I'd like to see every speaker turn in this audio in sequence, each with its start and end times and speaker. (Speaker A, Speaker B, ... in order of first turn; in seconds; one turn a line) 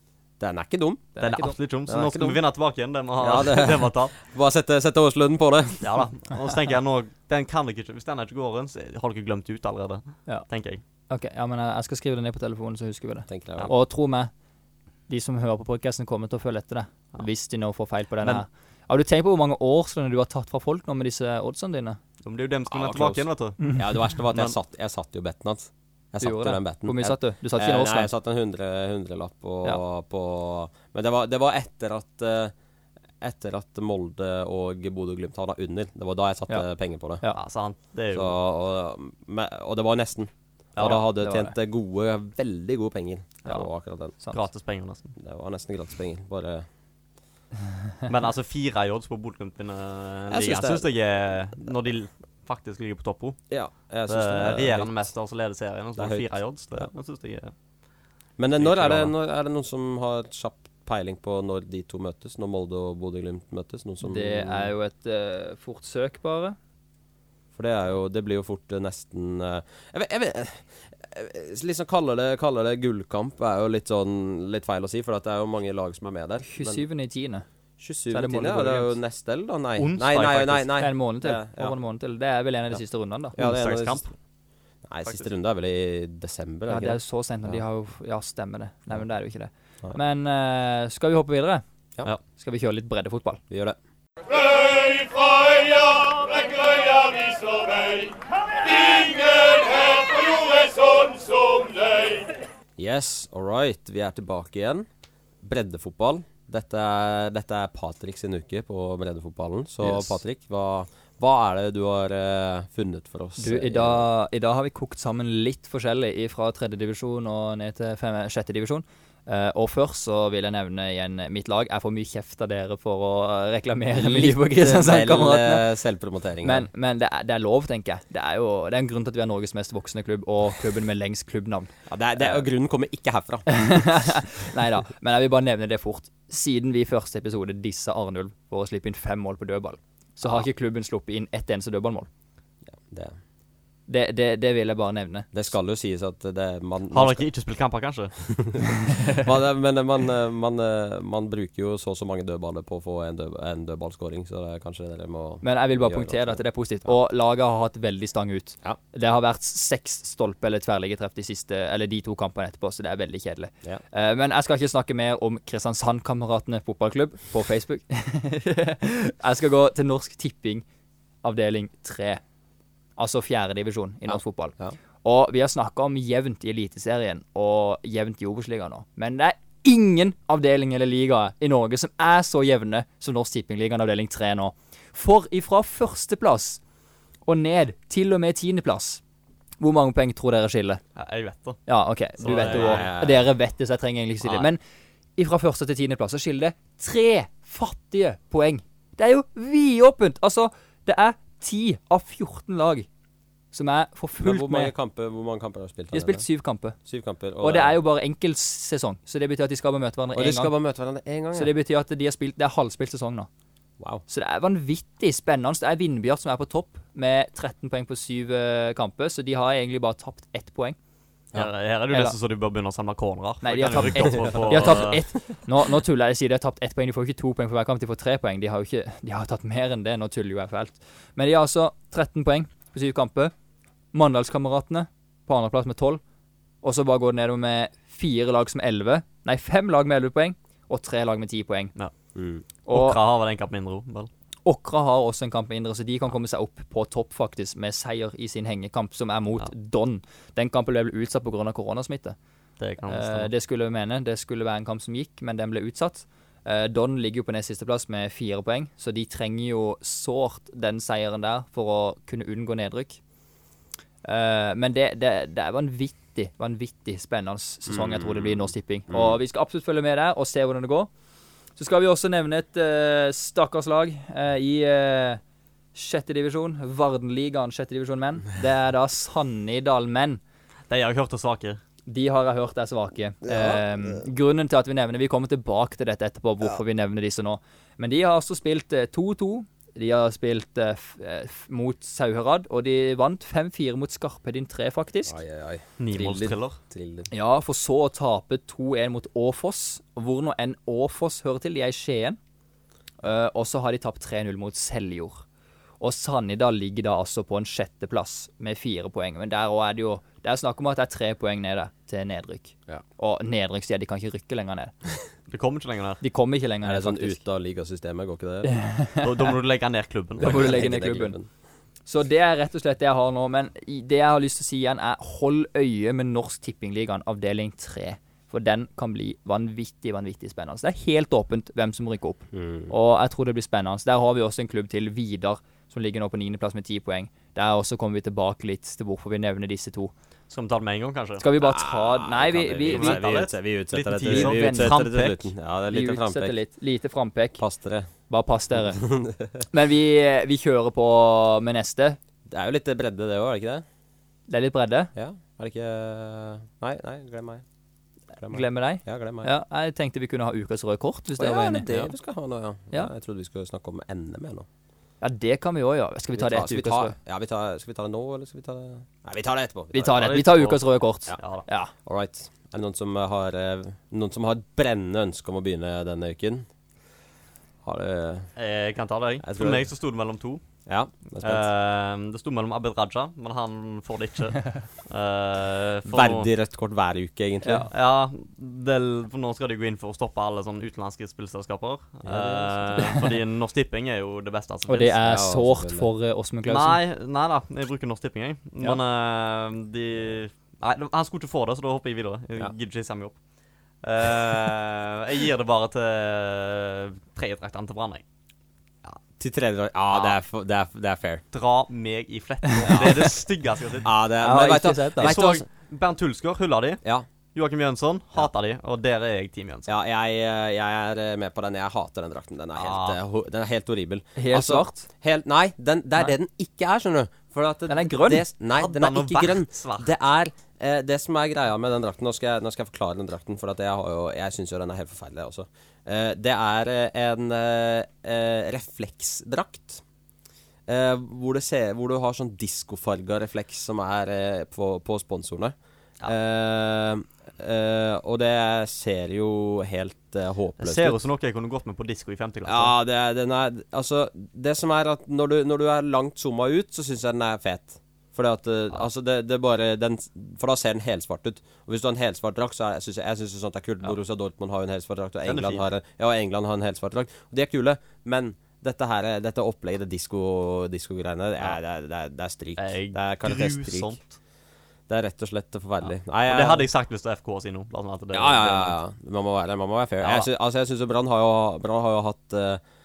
Speaker A: 0.4-1.1
Speaker B: 1.2-1.6
Speaker C: 1.2-4.2
Speaker A: 1.9-2.4
Speaker A: 3.2-5.9
Speaker C: 5.8-10.8
Speaker B: 11.1-14.3
Speaker A: 13.3-13.7
Speaker B: 15.1-22.0
Speaker C: 22.2-23.6
Speaker A: 22.7-32.5
Speaker C: 24.2-24.6
Speaker B: 26.2-28.1
Speaker A: 33.2-37.2
Speaker C: 37.4-38.3
Speaker A: 38.1-44.2
Speaker B: 40.8-41.5
Speaker C: 44.3-45.1
Speaker A: 45.2-46.7
Speaker C: 48.1-53.4
Speaker A: 50.3-50.9
Speaker A: 53.5-55.1
Speaker C: 54.1-57.5
Speaker A: 56.0-56.9
Speaker A: 58.4-64.7
Speaker C: 58.6-59.1
Speaker B: 64.0-66.6
Speaker A: 67.5-76.8
Speaker B: 76.5-77.5
Speaker A: 77.8-81.7
Speaker B: 78.1-79.0
Speaker C: 79.8-80.7
Speaker B: 80.8-83.4
Speaker A: 83.4-84.0
Speaker C: 83.4-84.1
Speaker A: 84.8-87.6
Speaker B: 86.7-91.6
Speaker B: 92.3-93.4
Speaker A: 93.5-93.8
Speaker A: 102.8-104.9
Speaker A: 105.4-114.1
Speaker B: 109.8-110.2
Speaker B: 113.4-125.6
Speaker A: 123.9-126.7
Speaker B: 126.4-132.4
Speaker A: 131.9-133.6
Speaker B: 133.5-142.1
Speaker A: 142.7-143.2
Speaker B: 143.9-145.3
Speaker A: 145.3-147.3
Speaker C: 146.9-148.1
Speaker A: 148.4-156.9
Speaker B: 155.4-170.6
Speaker B: 171.2-172.2
Speaker B: 173.0-186.6
Speaker A: 174.1-174.8
Speaker B: 187.3-189.0
Speaker B: 189.6-190.8
Speaker C: 191.0-191.6
Speaker B: 191.7-194.6
Speaker C: 192.2-192.9
Speaker A: 192.2-193.3
Speaker C: 194.2-194.5
Speaker B: 195.2-202.9
Speaker B: 203.5-204.7
Speaker A: 204.2-206.2
Speaker B: 205.9-206.8
Speaker A: 206.8-207.8
Speaker B: 207.4-210.5
Speaker A: 210.2-211.5
Speaker B: 211.3-213.3
Speaker B: 214.1-220.8
Speaker C: 221.3-225.0
Speaker B: 221.9-222.2
Speaker B: 223.4-233.3
Speaker B: 233.9-236.0
Speaker B: 236.6-241.7
Speaker A: 242.2-242.4
Speaker B: 242.7-243.0
Speaker C: 242.7-244.1
Speaker B: 244.4-252.2
Speaker C: 252.6-253.3
Speaker B: 252.8-263.0
Speaker B: 264.1-270.9
Speaker A: 267.7-269.2
Speaker B: 271.6-275.2
Speaker B: 275.8-280.2
Speaker C: 280.7-281.6
Speaker B: 281.9-295.1
Speaker A: 283.3-283.6
Speaker A: 295.1-297.1
Speaker C: 295.8-296.6
Speaker B: 297.1-302.2
Speaker B: 303.0-305.2
Speaker B: 305.8-314.7
Speaker C: 315.3-316.0
Speaker B: 316.0-317.2
Speaker A: 316.6-318.5
Speaker B: 318.4-319.3
Speaker C: 319.0-320.6
Speaker A: 320.2-321.3
Speaker B: 320.2-321.2
Speaker B: 321.9-339.9
Speaker A: 332.3-332.7
Speaker C: 340.3-341.3
Speaker B: 341.2-343.1
Speaker A: 341.4-346.4
Speaker C: 342.6-345.3
Speaker B: 344.0-344.9
Speaker B: 345.7-347.4
Speaker A: 347.4-347.9
Speaker B: 348.0-348.9
Speaker A: 348.6-349.4
Speaker B: 349.5-352.0
Speaker A: 352.3-353.6
Speaker B: 354.3-354.9
Speaker A: 354.9-357.4
Speaker A: 358.2-359.3
Speaker B: 358.3-361.8
Speaker A: 361.2-364.5
Speaker B: 365.0-366.9
Speaker A: 366.1-370.1
Speaker B: 369.7-371.7
Speaker C: 369.9-370.6
Speaker C: 371.2-371.4
Speaker A: 371.8-376.5
Speaker A: 377.6-378.3
Speaker C: 378.4-380.4
Speaker A: 379.2-379.7
Speaker A: 380.7-381.5
Speaker C: 381.2-386.3
Speaker A: 385.9-387.7
Speaker B: 387.4-387.7
Speaker C: 387.7-395.0
Speaker A: 392.0-393.0
Speaker B: 392.8-393.1
Speaker B: 394.7-396.8
Speaker A: 395.0-395.9
Speaker C: 396.5-403.2
Speaker C: 403.8-408.0
Speaker A: 409.2-411.2
Speaker C: 409.9-410.2
Speaker C: 411.3-413.9
Speaker B: 412.5-412.9
Speaker A: 412.6-413.1
Speaker A: 413.8-415.5
Speaker B: 414.2-415.2
Speaker C: 415.0-416.8
Speaker C: 417.3-419.7
Speaker A: 419.7-439.8
Speaker C: 422.6-423.0
Speaker B: 424.2-424.9
Speaker B: 427.7-428.3
Speaker C: 428.6-429.9
Speaker A: 440.7-451.0
Speaker C: 450.6-452.7
Speaker A: 452.4-474.0
Speaker C: 465.2-465.6
Speaker C: 472.6-474.1
Speaker A: 474.9-476.7
Speaker C: 476.3-478.8
Speaker A: 478.1-482.6
Speaker C: 480.0-480.3